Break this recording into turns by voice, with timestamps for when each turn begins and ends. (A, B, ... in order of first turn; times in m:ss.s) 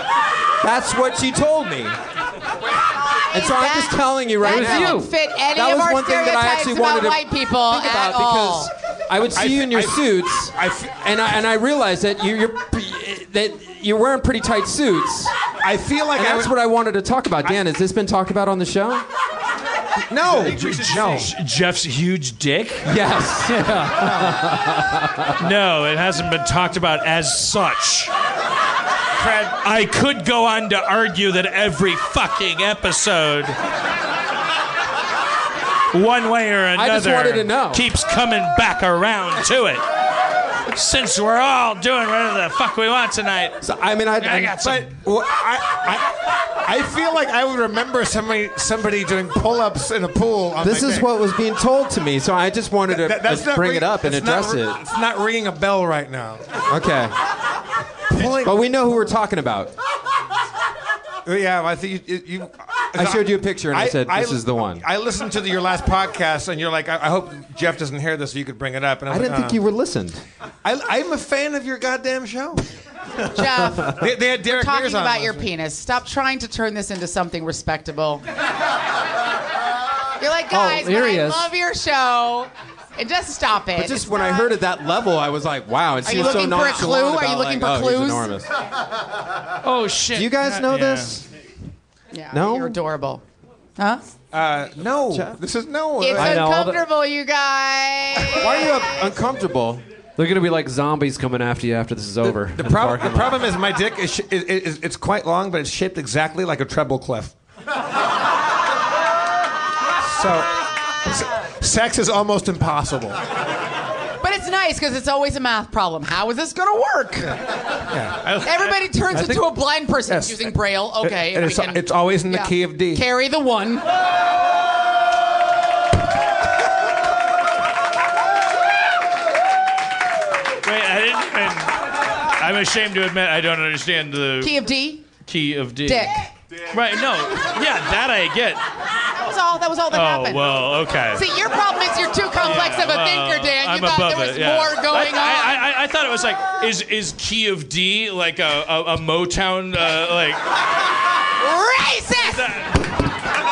0:00.6-0:02.0 A
0:03.3-0:08.7 B
0:03.3-0:15.4 A
0:04.4-0:05.1 C
0:09.4-0:11.0 D
0:15.6-0:16.5 D
0:16.2-0:19.0 A
0:20.1-0:21.3 D
0:20.2-0:22.9 E
0:22.8-0:23.6 A
0:23.2-0:25.2 C
0:24.0-0:24.5 D
0:25.4-0:28.1 E
0:29.2-0:33.6 E
0:35.9-0:39.8 E
0:36.8-0:37.8 C
0:40.7-0:43.6 E
0:43.6-0:44.6 A
0:44.2-0:44.9 E
0:44.6-0:46.1 D
0:46.6-0:51.1 D
0:50.6-0:54.8 A
0:52.9-0:56.5 D
0:56.7-0:57.1 A
0:58.1-0:58.8 D
0:58.2-0:59.7 A
1:01.3-1:09.6 D
1:02.9-1:04.8 A
1:09.1-1:10.2 A
1:10.6-1:12.6 D
1:13.3-1:18.2 B
1:13.8-1:15.5 D
1:20.2-1:24.5 B
1:20.5-1:21.5 C
1:23.8-1:28.5 A
1:26.0-1:28.3 B
1:29.6-1:31.2 E
1:30.1-1:31.3 A
1:32.1-1:33.2 B
1:32.3-1:32.8 A
1:33.8-1:34.0 B
1:34.3-1:36.5 D
1:35.1-1:35.4 A
1:36.0-1:38.9 B
1:36.2-1:36.8 C
1:38.2-1:39.8 A
1:40.2-1:43.5 C
1:42.2-1:47.4 D
1:50.0-1:53.2 D
1:54.2-1:57.4 B
1:57.9-1:58.2 D
1:58.2-1:58.7 E
1:58.4-2:03.8 B
1:59.1-1:59.4 D
2:00.1-2:03.0 D
2:10.6-2:14.6 E
2:14.4-2:15.1 B
2:15.2-2:16.2 E
2:15.8-2:16.3 B
2:16.7-2:18.6 E
2:19.2-2:20.6 B
2:19.9-2:21.3 E
2:21.1-2:25.6 B
2:22.4-2:30.4 E
2:31.4-2:32.6 B
2:32.3-2:32.9 E